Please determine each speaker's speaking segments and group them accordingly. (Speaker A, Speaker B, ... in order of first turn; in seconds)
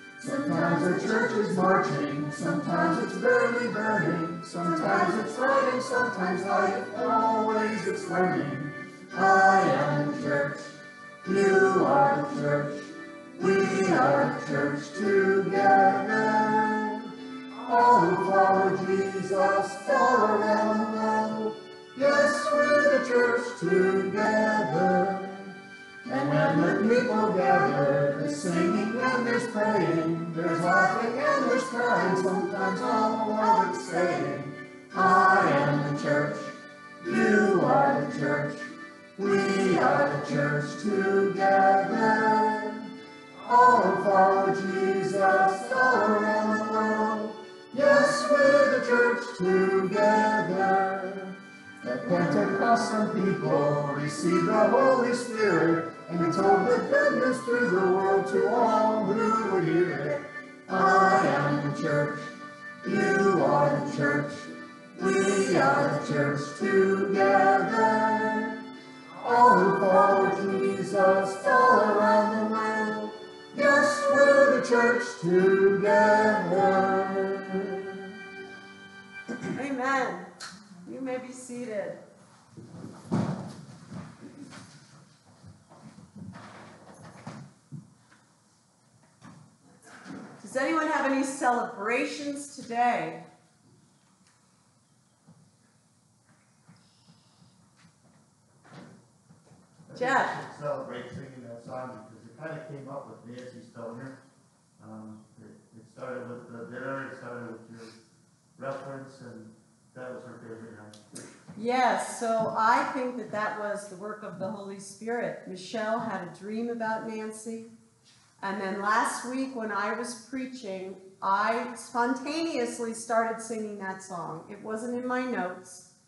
Speaker A: 0.2-10.7, 11.2-17.1, 17.6-25.5, 26.1-42.9, 43.4-68.6, 69.2-78.0
Speaker B: 79.5-80.3, 80.8-82.0, 90.4-93.3, 99.9-100.3, 111.5-117.7, 118.4-125.9
Speaker C: 99.9-104.2, 104.8-108.0, 108.5-111.0